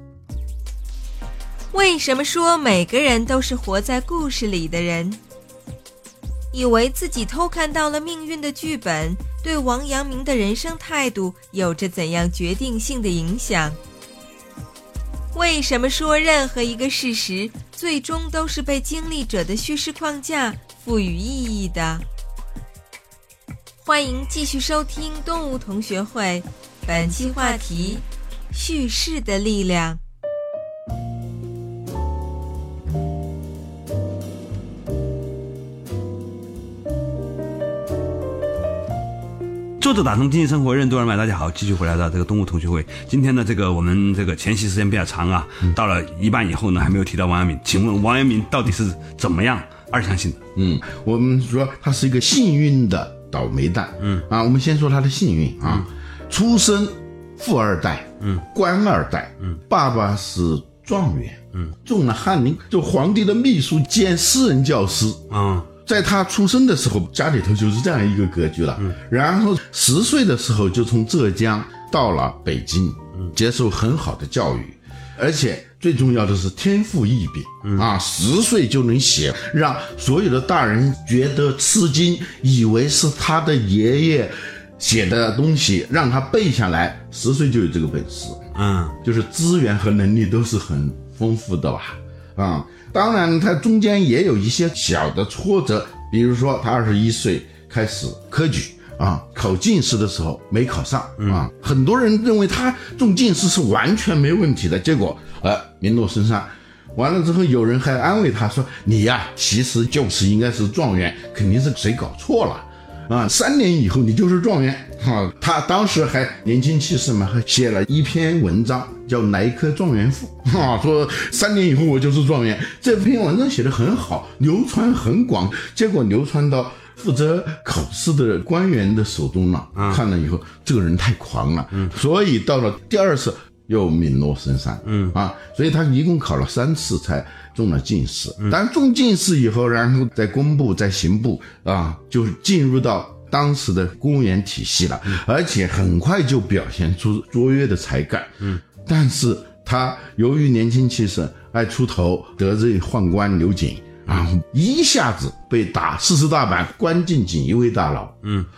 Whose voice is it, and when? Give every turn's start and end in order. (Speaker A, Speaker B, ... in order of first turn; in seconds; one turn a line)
Speaker A: 1.7-5.2
Speaker A: 6.5-13.8
Speaker A: 15.3-22.0
Speaker A: 23.8-30.0
Speaker B: 39.8-50.4
Speaker C: 50.5-65.2
Speaker B: 54.0-54.2
Speaker B: 65.3-65.7
Speaker C: 65.8-88.4
Speaker B: 88.5-89.0
Speaker C: 89.0-158.2
Speaker B: 129.8-130.0
Speaker B: 134.8-135.1